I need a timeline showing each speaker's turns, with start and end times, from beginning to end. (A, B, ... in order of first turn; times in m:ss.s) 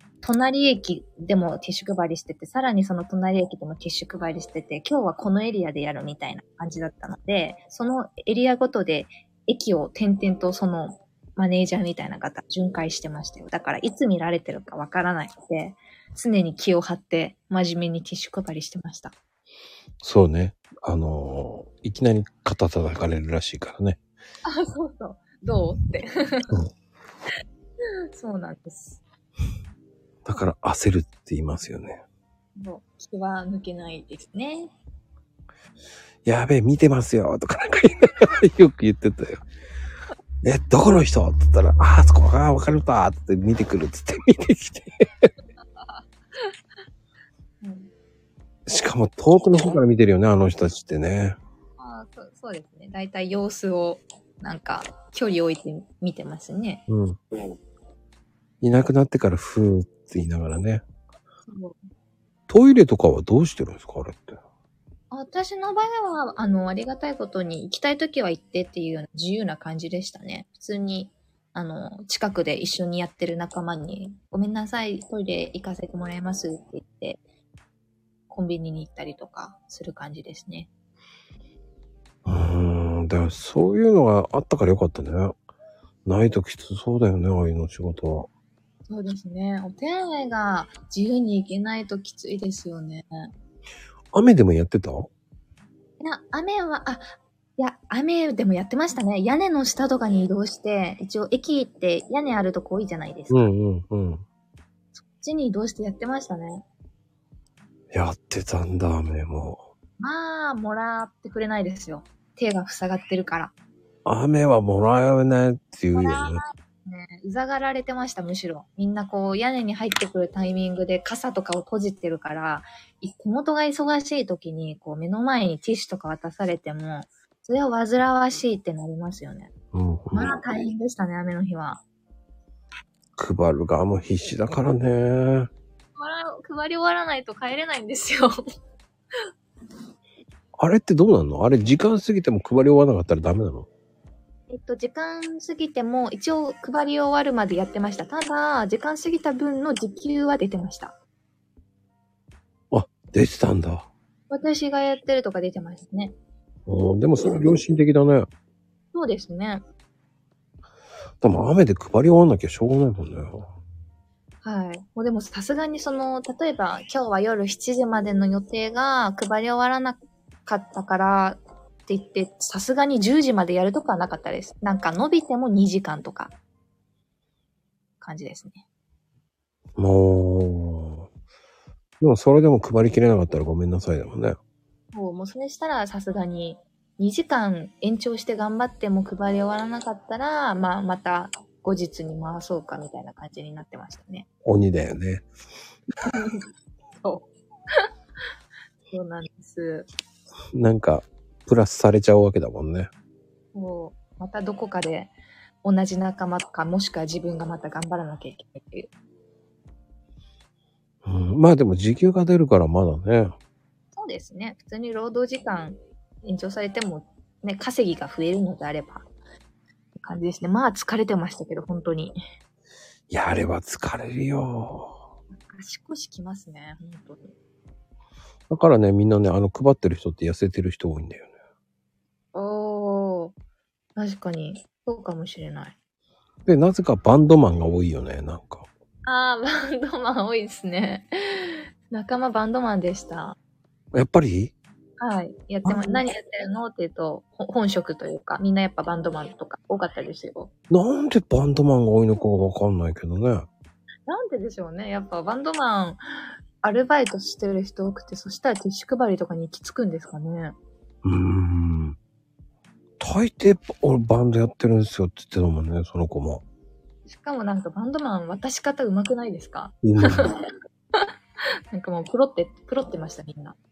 0:00.2-0:19.1 A
0:20.0-0:24.0 B
0:24.4-0:26.5 A
0:28.1-0:29.0 A
0:30.2-0:32.0 B
0:32.6-0:34.7 A
0:36.2-0:39.4 B
0:40.4-0:45.3 B
0:45.8-0:46.5 A
0:47.6-0:47.9 A
0:48.7-0:51.4 B
0:51.8-0:56.8 A
0:56.9-0:57.2 B
0:58.6-1:00.8 B
1:01.5-1:01.8 A
1:02.5-1:04.4 B
1:05.1-1:17.2 A
1:18.3-1:20.7 A
1:22.2-1:25.3 B
1:26.0-1:28.3 B
1:28.9-1:33.3 A
1:34.1-1:35.1 B
1:36.0-1:43.5 A
1:43.3-1:44.2 B
1:45.0-1:46.6 A
1:47.9-1:49.7 B
1:50.0-1:53.5 A
1:54.0-1:56.4 B
1:55.9-2:09.5 A
2:09.7-2:10.3 B
2:10.1-2:11.8 A
2:13.2-2:15.5 B
2:16.0-2:18.4 A
2:20.6-2:23.7 B
2:24.5-2:30.9 A
2:32.7-2:33.9 B
2:34.3-2:36.1 A
2:36.7-2:38.3 B
2:38.9-2:39.6 A
2:41.2-2:43.5 B
2:44.4-2:56.3 A
2:58.0-2:58.6 A
2:59.8-3:01.0 B
3:02.0-3:04.4 B
3:04.9-3:14.3 A
3:14.4-3:15.3 B
3:16.1-3:16.4 A
3:17.0-3:17.9 A
3:18.9-3:19.9 A
3:20.5-3:22.9 B
3:23.5-3:28.9 A
3:31.0-3:33.3 B
3:33.9-3:39.1 A
3:40.0-3:42.2 A
3:43.1-3:45.0 B
3:45.5-3:47.3 A
3:48.5-3:51.3 B
3:52.3-3:53.3 A
3:54.0-3:55.7 A
3:56.4-3:58.7 B
3:59.0-4:03.4 A
4:03.9-4:04.5 B
4:05.0-4:10.5 A
4:05.6-4:06.0 B
4:10.7-4:13.5 B
4:14.1-4:20.5 A
4:21.0-4:22.0 B
4:23.0-4:26.4 B
4:27.1-4:30.4 A
4:29.8-4:30.3 B
4:31.7-4:33.6 A